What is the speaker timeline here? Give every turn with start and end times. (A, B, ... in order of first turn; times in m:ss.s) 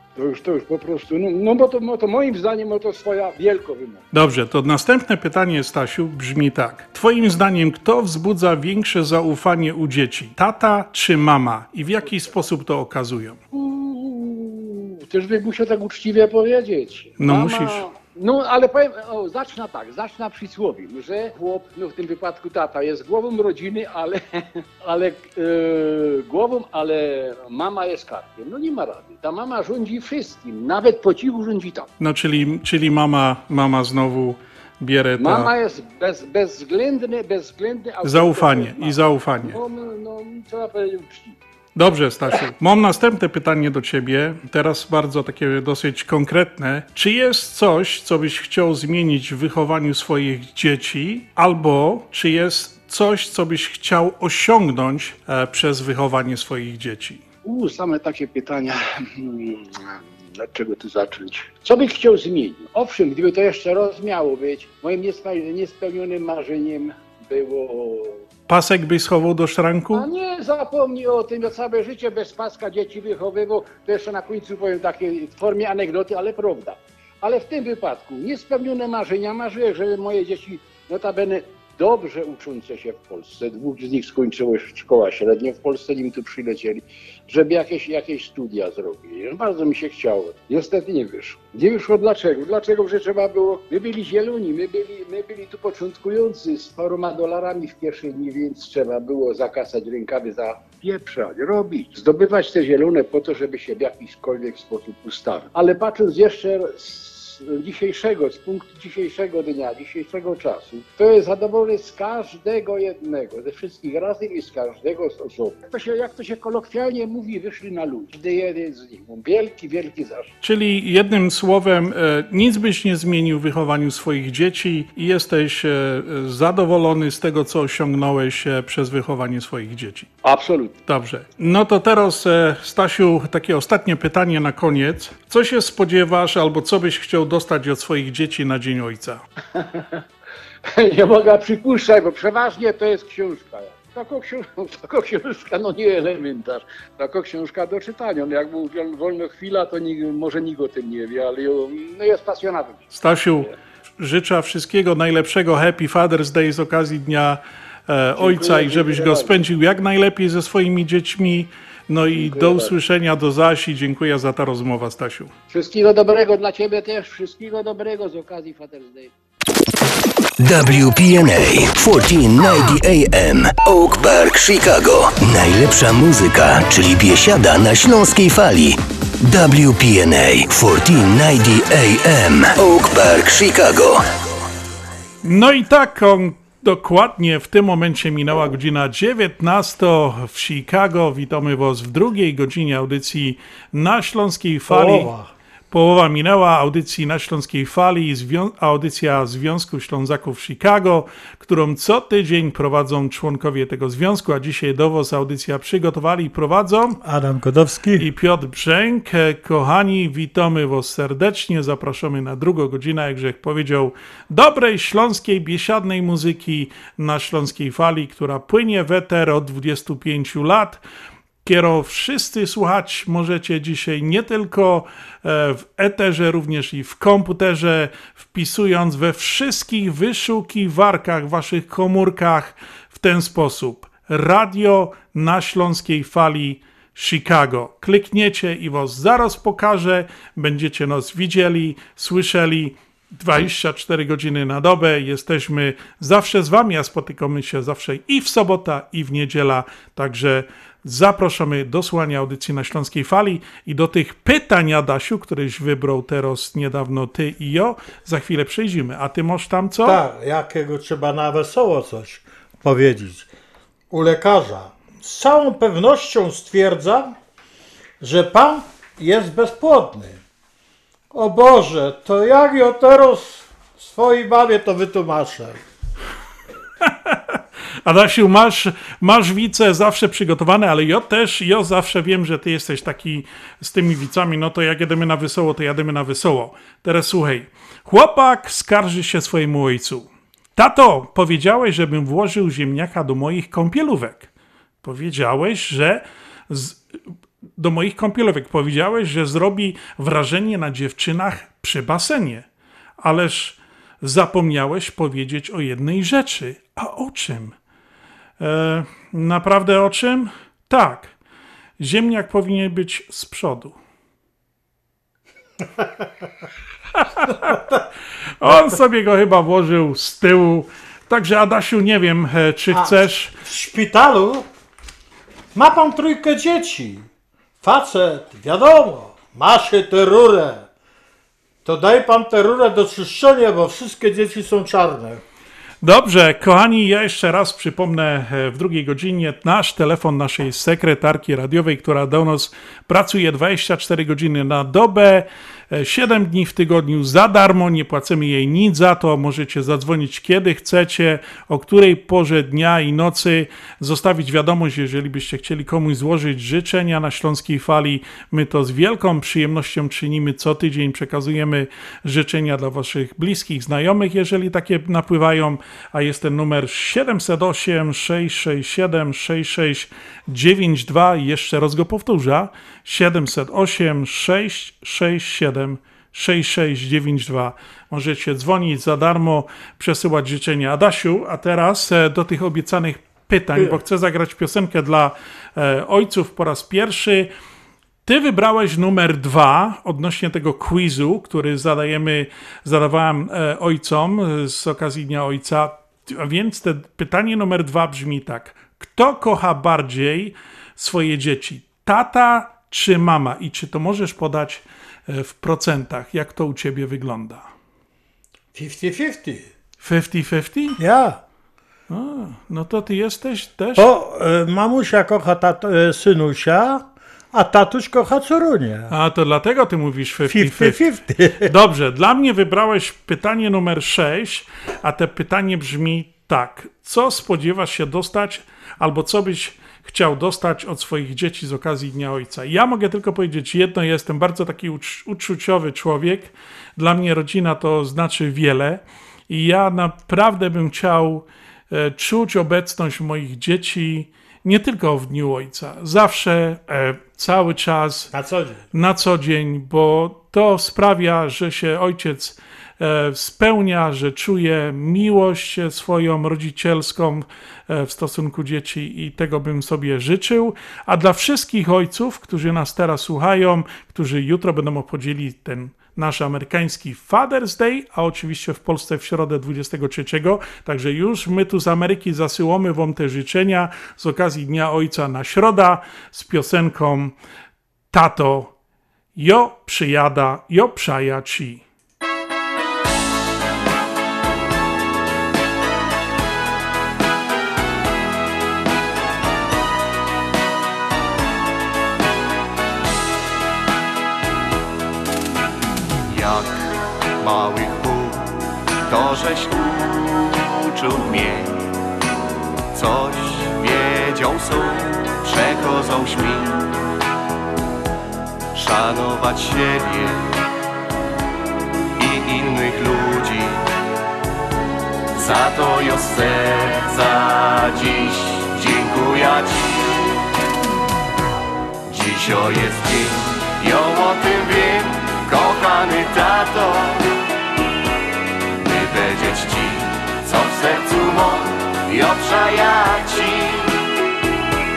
0:00.2-0:04.0 A
0:04.1-0:13.4 B
0:12.0-0:12.4 A
0:13.5-0:31.9 A
0:17.2-0:17.8 B
0:32.0-0:35.5 B
0:35.2-0:41.4 A
0:38.0-0:39.6 B
0:41.8-0:57.2 B
0:57.4-1:08.2 A
1:08.5-1:10.1 B
1:09.9-2:00.3 A
2:00.4-2:10.1 B
2:10.2-2:10.8 A
2:10.9-2:19.2 B
2:19.5-2:20.0 A
2:20.7-2:33.5 A
2:32.9-2:45.3 B
2:38.2-2:39.4 A
2:42.1-2:42.7 A
2:45.5-2:49.1 A
2:50.4-2:58.7 C
2:59.3-3:03.8 C
3:05.2-3:15.1 B
3:14.7-3:15.3 D
3:15.7-3:27.0 B
3:27.0-3:28.0 D
3:28.0-3:40.8 B
3:41.4-4:20.0 B
4:19.8-4:23.3 D
4:23.9-4:27.1 D
4:28.0-4:30.2 D
4:31.1-4:35.6 D
4:36.8-4:54.3 B
4:54.8-4:56.8 B
4:57.6-5:02.4 B
5:03.0-5:07.5 B
5:08.4-5:11.1 B
5:11.8-5:13.8 B
5:17.0-5:17.7 B
5:17.5-5:17.8 D
5:18.4-5:23.3 B
5:22.7-5:24.4 D
5:25.5-5:27.1 D
5:27.6-5:30.7 D
5:31.6-5:35.2 D
5:35.8-6:27.3 B
6:28.0-6:47.5 B
6:48.5-6:49.5 D
6:49.8-6:50.8 B
6:50.8-6:51.2 D
6:51.9-6:53.9 B
6:53.8-6:58.9 D
6:58.9-7:00.9 B
7:00.3-7:01.5 D
7:01.4-7:28.1 B
7:28.1-7:28.6 D
7:28.7-7:57.1 B
7:57.9-7:58.5 B
7:59.2-8:01.6 B
8:16.1-8:16.7 E
8:17.2-8:18.2 E
8:18.9-8:21.6 E
8:22.7-8:26.7 E
8:28.5-8:30.3 E
8:32.0-8:33.6 E
8:35.1-8:40.2 E
8:41.9-8:47.1 E
8:48.6-8:53.8 E